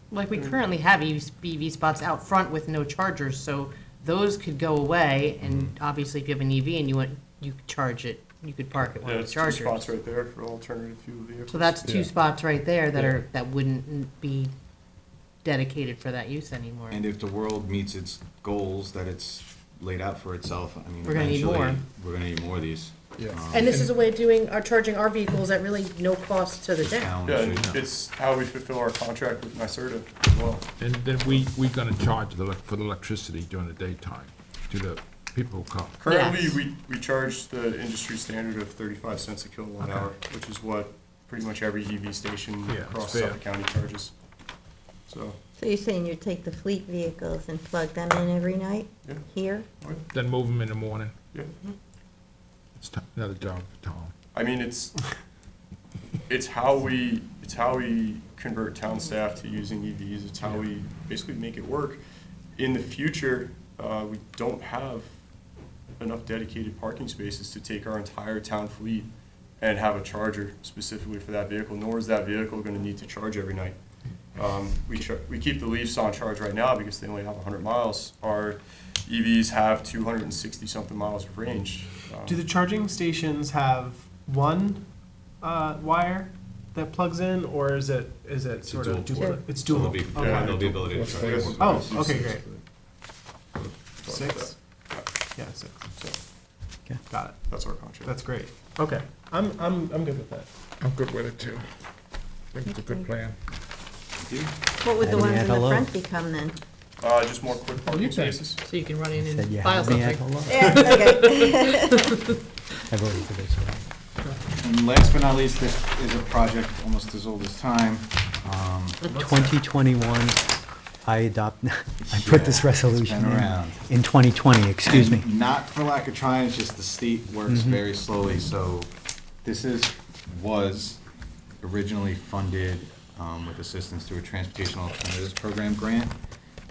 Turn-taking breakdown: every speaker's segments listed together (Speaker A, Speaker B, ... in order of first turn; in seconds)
Speaker A: 0.1-9.9, 11.5-14.5, 15.4-17.0, 21.1-21.8, 23.5-27.1, 36.0-36.6, 108.6-111.8
Speaker B: 5.4-5.7, 16.9-23.9, 26.8-27.8, 88.6-92.0, 104.2-104.5, 114.6-119.1, 122.0-123.9, 124.8-128.9, 129.4-131.0, 131.6-136.2
Speaker C: 9.0-11.9, 27.2-31.5, 36.0-44.1, 45.1-45.4, 54.3-55.0, 56.3-62.0, 62.6-65.1, 66.0-73.8, 74.3-82.5, 90.1-92.6, 94.0-95.3, 95.9-96.2, 97.5-98.2, 107.0-108.6
Speaker D: 23.2-23.9, 27.6-27.8, 30.8-36.0, 39.8-40.1, 42.7-43.4, 50.1-51.1, 52.8-54.1, 90.9-91.9, 100.8-101.7, 102.5-103.4, 107.8-108.4
Speaker E: 45.6-49.7, 102.7-103.1, 104.8-106.6, 110.5-112.0
Speaker F: 82.2-92.5, 94.1-94.6, 95.3-96.0, 97.1-100.5
Speaker G: 105.0-105.9, 109.2-110.6, 112.9-113.8, 119.1-120.4, 121.0-125.3, 127.5-127.8